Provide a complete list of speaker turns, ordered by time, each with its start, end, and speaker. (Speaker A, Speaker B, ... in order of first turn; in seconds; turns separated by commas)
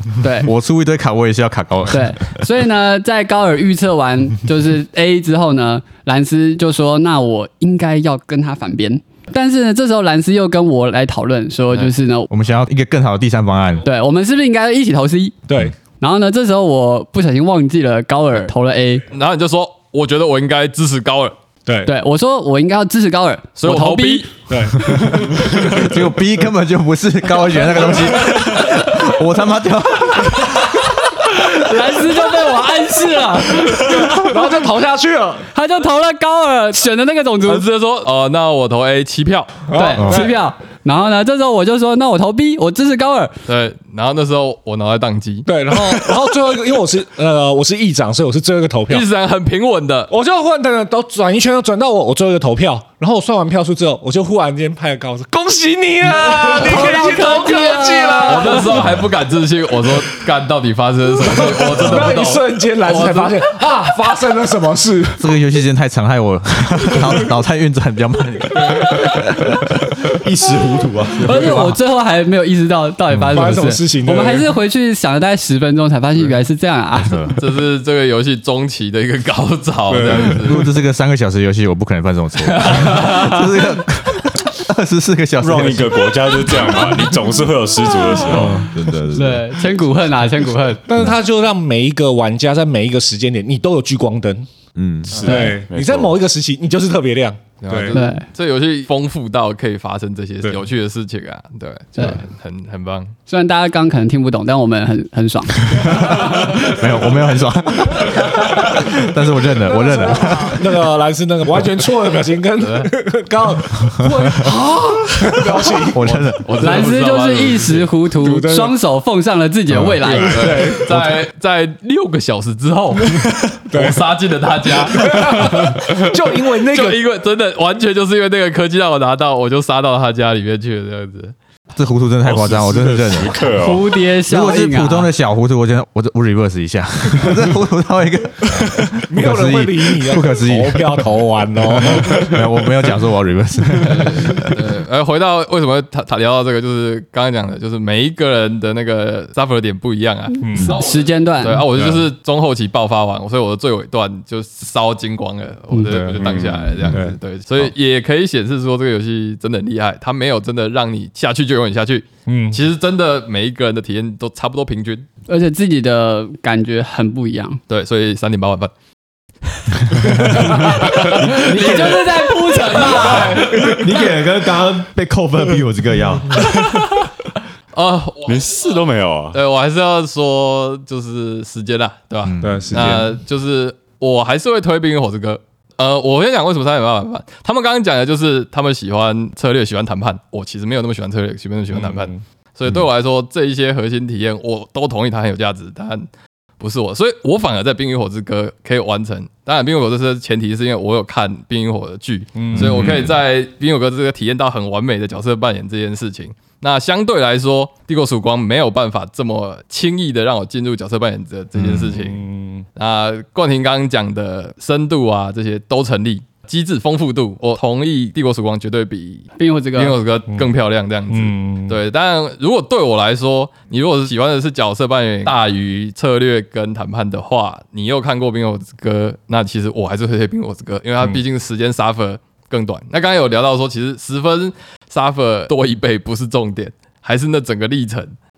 Speaker A: 0.2-0.5, Speaker B: 0.4-2.4, Speaker A: 1.9-12.3, Speaker B: 12.3-13.8, Speaker A: 13.8-15.4, Speaker C: 15.5-15.7, Speaker A: 16.0-19.0, Speaker D: 19.1-21.4, Speaker C: 21.6-21.9, Speaker A: 21.9-24.2, Speaker D: 23.6-24.3, Speaker C: 24.5-25.0, Speaker B: 24.8-31.7, Speaker A: 24.8-25.8, Speaker A: 31.5-34.6, Speaker C: 33.9-35.5, Speaker A: 35.5-37.6, Speaker D: 37.4-39.6, Speaker C: 39.7-40.4, Speaker A: 39.7-43.4, Speaker B: 39.9-40.2, Speaker D: 43.5-45.5, Speaker C: 45.5-49.0, Speaker D: 48.9-50.1, Speaker C: 50.1-58.9, Speaker A: 56.4-58.8, Speaker D: 56.5-63.5, Speaker C: 61.2-65.3, Speaker B: 65.2-70.1, Speaker E: 70.2-71.8, Speaker A: 71.2-77.3, Speaker B: 73.1-73.5, Speaker C: 73.3-74.5, Speaker B: 77.0-77.3, Speaker D: 77.3-80.7, Speaker C: 79.9-80.4, Speaker B: 80.3-86.2, Speaker D: 82.4-83.1, Speaker A: 82.7-83.4, Speaker F: 85.4-88.6, Speaker C: 88.3-88.7, Speaker E: 88.5-89.5, Speaker A: 89.1-90.8, Speaker C: 90.8-94.5, Speaker E: 94.7-95.2, Speaker F: 95.1-96.1, Speaker C: 95.2-98.0, Speaker A: 95.2-95.6, Speaker D: 97.6-103.1, Speaker A: 97.9-98.2, Speaker A: 103.3-106.8, Speaker B: 105.7-110.8, Speaker C: 109.6-116.0, Speaker D: 112.6-112.9, Speaker B: 114.2-114.5, Speaker D: 115.6-117.9, Speaker B: 115.9-116.6, Speaker A: 116.6-120.8, Speaker C: 118.2-118.8, Speaker B: 119.7-120.0, Speaker D: 120.0-123.2, Speaker C: 120.0-121.2, Speaker C: 123.1-124.0, Speaker D: 123.7-131.3, Speaker C: 124.8-127.0, Speaker B: 131.7-133.5, Speaker F: 132.2-133.9, Speaker A: 133.6-135.1, Speaker B: 134.2-141.1, Speaker C: 139.1-142.3, Speaker B: 141.7-144.7, Speaker D: 143.8-165.1, Speaker C: 150.4-150.7, Speaker A: 150.6-151.7, Speaker C: 151.7-152.1, Speaker C: 155.8-156.2, Speaker F: 156.2-157.0, Speaker C: 156.9-157.2, Speaker C: 162.3-162.6, Speaker A: 165.3-167.6, Speaker D: 167.7-168.7, Speaker C: 170.1-170.6, Speaker D: 170.4-173.8, Speaker E: 171.2-172.0, Speaker A: 171.4-173.9, Speaker E: 173.0-176.5, Speaker D: 176.5-177.1, Speaker D: 177.7-178.3, Speaker F: 178.2-179.4, Speaker D: 179.3-196.1, Speaker B: 182.3-182.8, Speaker C: 182.4-183.1, Speaker C: 191.7-192.2, Speaker D: 196.6-212.2, Speaker C: 202.3-202.7, Speaker B: 202.6-202.8, Speaker F: 202.6-203.0, Speaker C: 211.6-212.7, Speaker D: 212.7-238.1, Speaker A: 219.4-220.0, Speaker C: 221.1-221.8